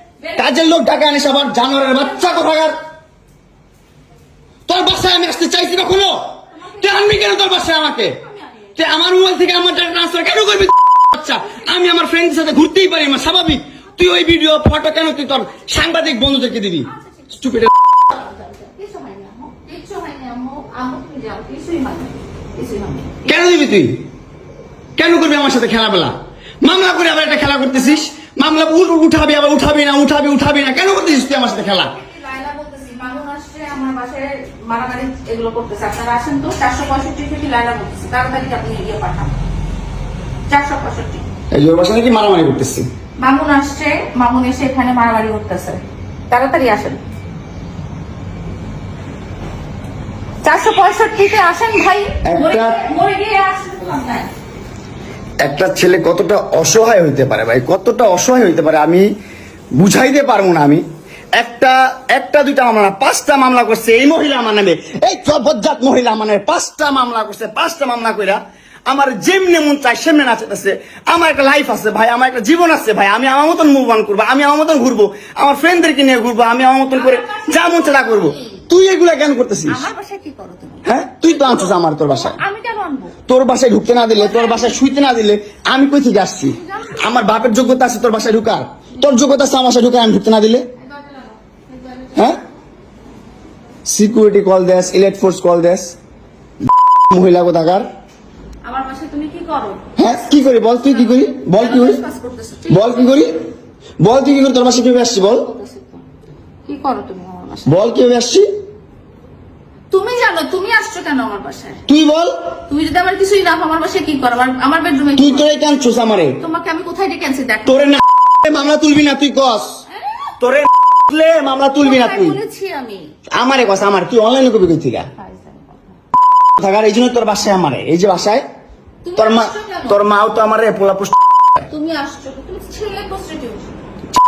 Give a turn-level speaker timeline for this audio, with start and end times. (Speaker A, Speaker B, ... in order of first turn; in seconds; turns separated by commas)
Speaker A: 0.3-2.8, Speaker A: 4.7-8.2, Speaker B: 6.6-7.3, Speaker B: 8.2-8.7, Speaker A: 8.8-17.7, Speaker B: 16.9-17.4, Speaker B: 18.1-23.2, Speaker A: 23.2-24.0, Speaker A: 25.0-31.9, Speaker B: 31.9-39.4, Speaker B: 40.5-41.2, Speaker A: 41.5-42.9, Speaker B: 43.2-47.0, Speaker B: 50.4-54.3, Speaker A: 52.2-52.8, Speaker A: 55.4-59.0, Speaker A: 59.7-60.8, Speaker A: 61.3-79.8, Speaker B: 76.9-78.7, Speaker B: 79.7-83.2, Speaker A: 80.8-82.4, Speaker A: 83.3-90.7, Speaker B: 84.1-84.8, Speaker B: 86.5-87.5, Speaker B: 90.8-92.4, Speaker A: 93.8-95.9, Speaker A: 97.1-97.8, Speaker B: 98.6-99.9, Speaker A: 100.0-102.0, Speaker B: 100.8-103.2, Speaker A: 102.7-103.4, Speaker A: 104.0-105.5, Speaker B: 105.3-106.0, Speaker B: 106.6-107.8, Speaker A: 107.7-108.5, Speaker B: 109.9-111.8, Speaker A: 111.9-112.3, Speaker B: 112.7-115.5, Speaker A: 115.2-116.4, Speaker B: 116.4-117.8, Speaker A: 117.7-119.8, Speaker A: 120.4-122.4, Speaker B: 121.8-123.1, Speaker A: 123.3-125.1, Speaker B: 125.1-126.0, Speaker A: 126.6-128.4, Speaker B: 129.0-130.0, Speaker A: 129.2-131.1, Speaker B: 131.7-133.7